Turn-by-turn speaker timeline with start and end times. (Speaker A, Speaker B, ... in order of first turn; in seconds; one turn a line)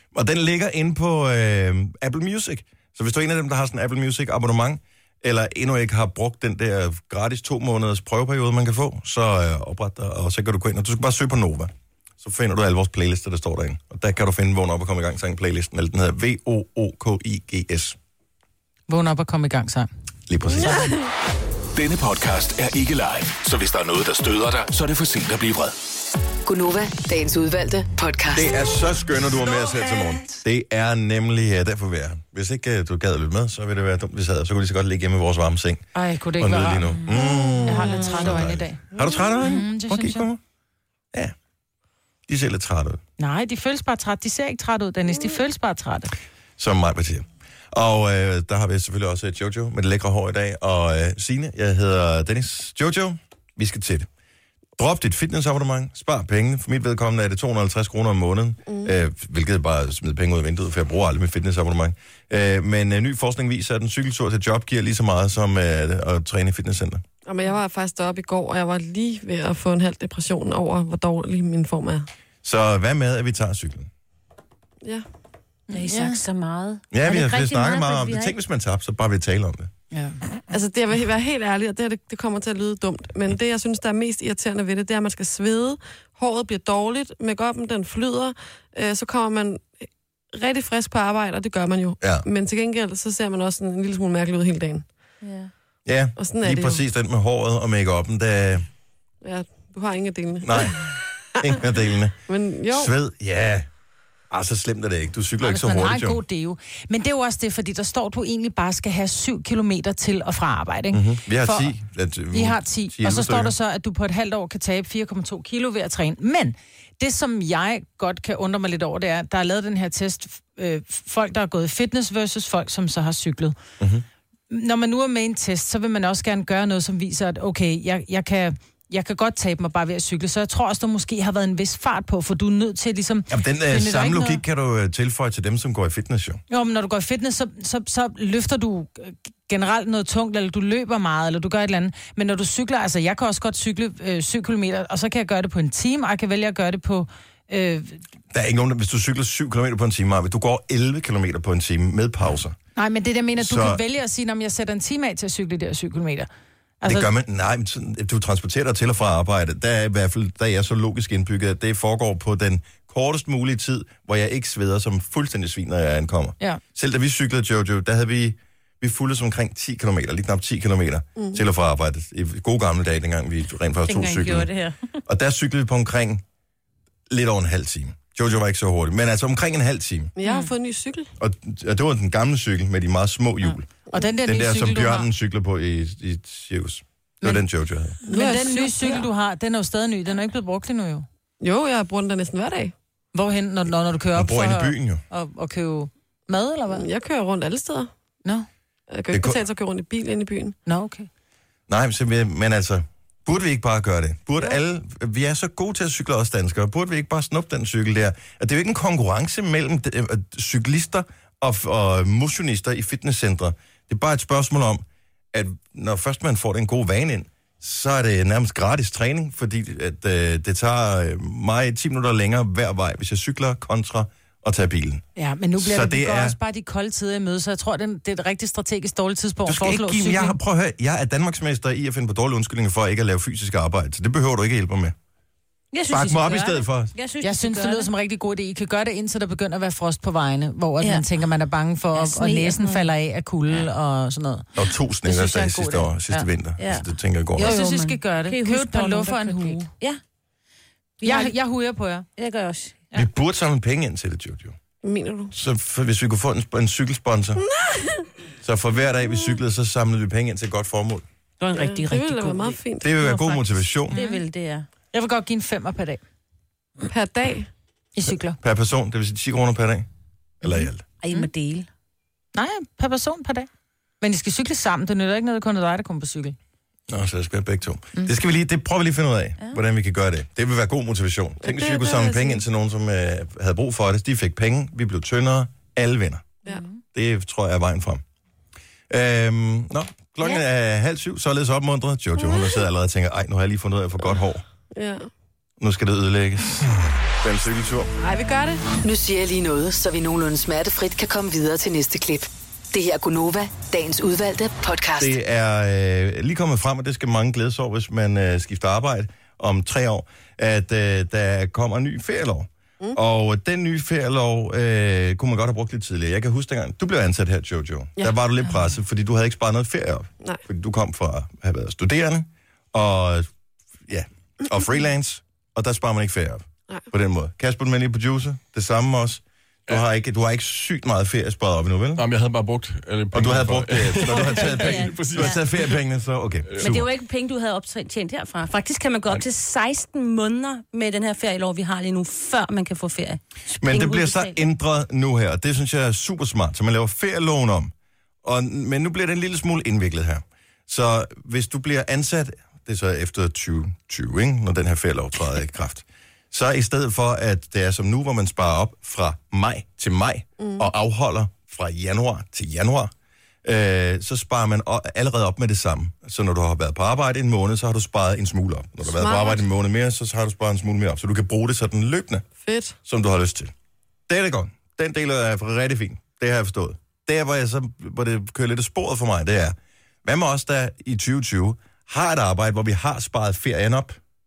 Speaker A: 0.1-18.0
Speaker B: 18.9-19.9
Speaker A: 20.3-20.9
Speaker C: 20.6-20.9
Speaker D: 21.7-25.8
Speaker E: 26.4-28.5
Speaker A: 28.3-35.9
Speaker B: 35.9-40.3
Speaker A: 36.4-40.4
Speaker C: 37.4-37.7
Speaker A: 42.3-43.0
Speaker B: 43.2-46.1
Speaker A: 46.6-54.1
Speaker A: 54.8-67.0
Speaker C: 67.2-72.1
Speaker A: 72.4-73.9
Speaker B: 75.7-76.2
Speaker F: 75.7-78.3
Speaker A: 76.9-79.7
Speaker B: 79.9-80.2
Speaker C: 80.5-94.9
Speaker A: 92.0-92.3
Speaker F: 95.2-95.5
Speaker A: 95.9-98.7
Speaker C: 96.2-96.8
Speaker C: 99.2-101.0
Speaker A: 100.4-103.7
Speaker C: 102.3-102.9
Speaker A: 104.3-106.2
Speaker B: 105.4-111.7
Speaker A: 110.9-113.5
Speaker B: 112.3-123.5
Speaker A: 123.8-124.0
Speaker B: 124.5-134.4
Speaker A: 133.3-136.4
Speaker B: 136.5-148.0
Speaker A: 148.3-152.6
Speaker B: 152.8-156.3
Speaker A: 153.4-153.8
Speaker B: 156.8-157.1
Speaker A: 156.8-174.5
Speaker F: 173.9-174.9
Speaker A: 175.1-176.2
Speaker A: 177.1-180.1
Speaker C: 180.2-181.1
Speaker B: 180.2-180.5
Speaker A: 181.2-183.7
Speaker B: 183.9-185.1
Speaker A: 184.2-188.0
Speaker C: 188.1-189.1
Speaker B: 188.1-191.1
Speaker C: 191.4-192.7
Speaker B: 193.1-196.9
Speaker A: 194.1-195.0
Speaker C: 196.7-197.9
Speaker C: 198.9-200.6
Speaker A: 199.1-199.4
Speaker B: 200.7-201.1
Speaker A: 201.7-225.1
Speaker B: 225.2-230.4
Speaker A: 225.6-226.4
Speaker A: 229.4-234.9
Speaker F: 235.7-237.9
Speaker A: 235.9-236.9
Speaker B: 237.2-244.5
Speaker F: 241.9-242.9
Speaker A: 244.6-247.5
Speaker B: 245.1-246.3
Speaker F: 246.6-250.0
Speaker B: 247.4-249.7
Speaker F: 251.0-251.3
Speaker B: 251.0-252.1
Speaker F: 252.2-252.9
Speaker A: 252.9-254.6
Speaker C: 254.8-255.3
Speaker A: 255.3-257.4
Speaker C: 257.6-258.1
Speaker A: 258.4-261.1
Speaker F: 261.4-264.7
Speaker C: 261.5-262.9
Speaker A: 262.8-264.0
Speaker B: 263.9-264.2
Speaker B: 264.9-266.0
Speaker C: 266.8-267.5
Speaker B: 268.0-268.4
Speaker A: 268.4-269.9
Speaker A: 270.4-270.8
Speaker B: 270.5-271.3
Speaker F: 271.0-271.7
Speaker B: 272.4-273.5
Speaker B: 274.0-276.4
Speaker A: 276.9-286.4
Speaker C: 281.4-282.4
Speaker F: 286.5-286.8
Speaker A: 286.9-288.0
Speaker A: 288.9-294.4
Speaker C: 294.7-295.1
Speaker A: 295.6-297.9
Speaker C: 298.0-298.7
Speaker E: 298.7-305.2
Speaker A: 305.0-323.3
Speaker A: 323.9-332.1
Speaker G: 332.0-335.8
Speaker A: 333.1-336.9
Speaker F: 334.1-335.4
Speaker G: 336.5-336.8
Speaker F: 336.6-344.4
Speaker A: 343.6-347.7
Speaker A: 348.2-362.9
Speaker C: 360.4-360.7
Speaker A: 363.4-372.2
Speaker C: 368.8-369.4
Speaker C: 372.4-372.8
Speaker A: 372.9-373.5
Speaker A: 374.1-384.0